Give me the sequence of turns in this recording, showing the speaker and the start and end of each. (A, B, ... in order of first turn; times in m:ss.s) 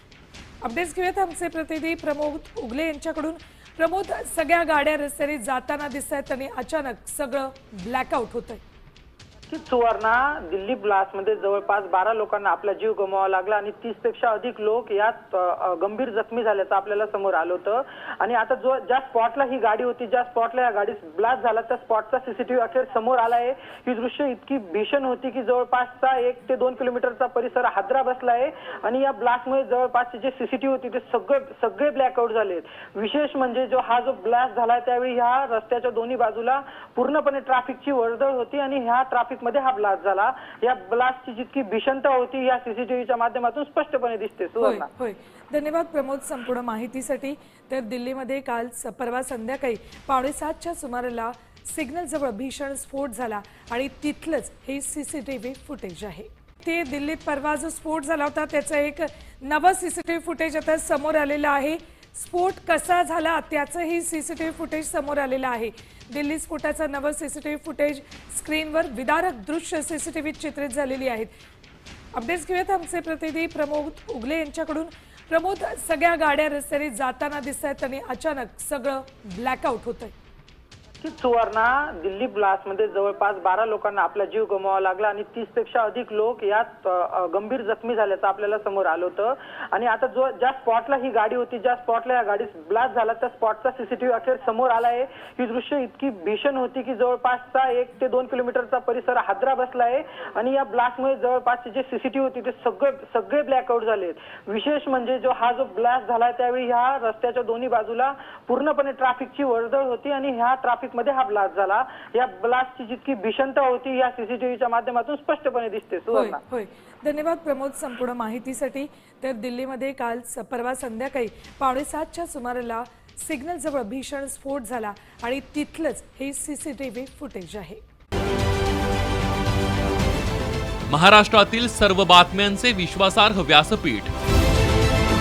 0:00.6-0:08.6 A
0:09.5-0:44.9 B
0:44.6-1:11.3 A
1:12.1-1:20.1 A
1:21.0-1:56.4 B
1:56.1-2:07.8 A
2:10.9-2:14.1 C